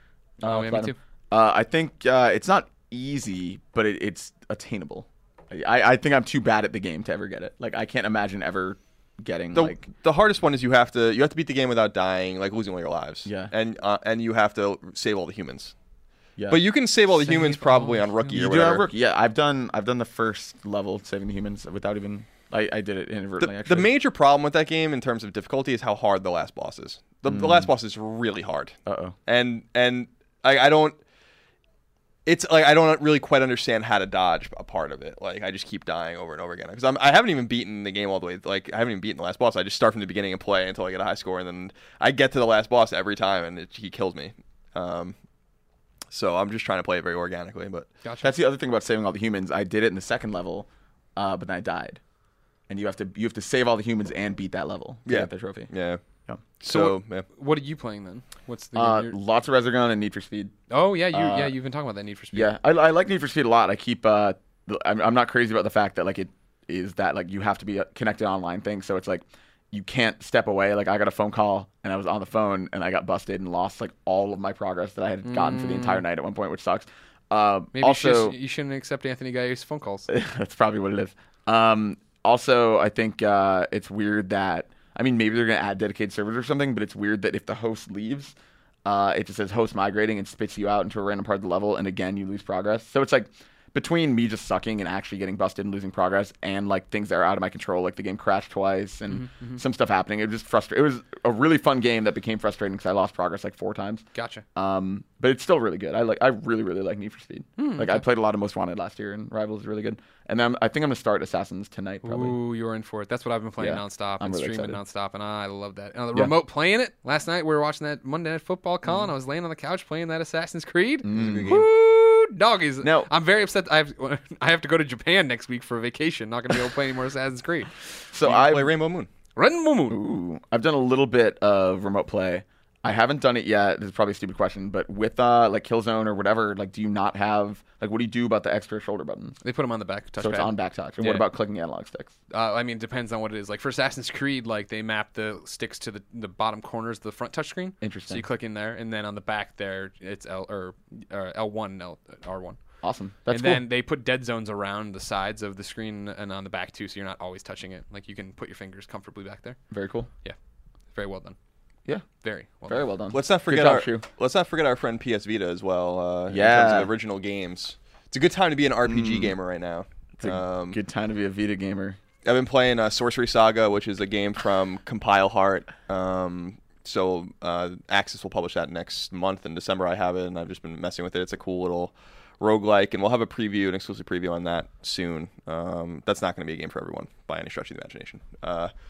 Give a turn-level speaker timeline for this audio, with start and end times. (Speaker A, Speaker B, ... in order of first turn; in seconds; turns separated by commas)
Speaker A: 0.4-9.9, Speaker B: 0.4-1.0, Speaker C: 9.5-15.7, Speaker A: 13.2-13.5, Speaker C: 16.5-18.9, Speaker B: 17.3-18.3, Speaker A: 18.3-23.9, Speaker C: 23.4-28.8, Speaker A: 27.3-27.7, Speaker A: 28.9-29.2, Speaker C: 29.3-31.0, Speaker C: 32.3-45.1, Speaker C: 46.1-47.9, Speaker A: 48.2-52.0, Speaker A: 52.7-55.7, Speaker C: 55.1-56.0, Speaker C: 56.6-57.2, Speaker B: 56.7-59.1, Speaker A: 58.8-60.5, Speaker B: 60.7-62.5, Speaker A: 61.1-61.5, Speaker A: 62.3-78.3, Speaker B: 75.2-76.0, Speaker B: 77.7-80.1, Speaker A: 80.1-88.3, Speaker A: 88.8-104.0, Speaker B: 99.2-99.6, Speaker B: 104.2-104.4, Speaker A: 104.5-112.3, Speaker B: 107.6-108.0, Speaker B: 112.0-127.7, Speaker A: 113.6-114.8, Speaker A: 121.0-121.7, Speaker C: 121.1-121.7, Speaker A: 122.8-123.1, Speaker A: 128.1-128.8, Speaker C: 128.2-129.1, Speaker B: 129.4-130.0, Speaker A: 129.9-139.4, Speaker B: 139.4-141.3, Speaker A: 140.2-142.1, Speaker B: 142.3-152.6, Speaker A: 147.8-148.2, Speaker A: 152.8-153.6, Speaker B: 153.3-159.6, Speaker A: 159.7-160.1, Speaker B: 160.9-161.4, Speaker B: 162.2-162.8, Speaker A: 162.7-164.1, Speaker C: 163.1-170.8, Speaker A: 166.3-166.9, Speaker A: 168.8-169.3, Speaker A: 170.2-172.0, Speaker C: 172.2-188.7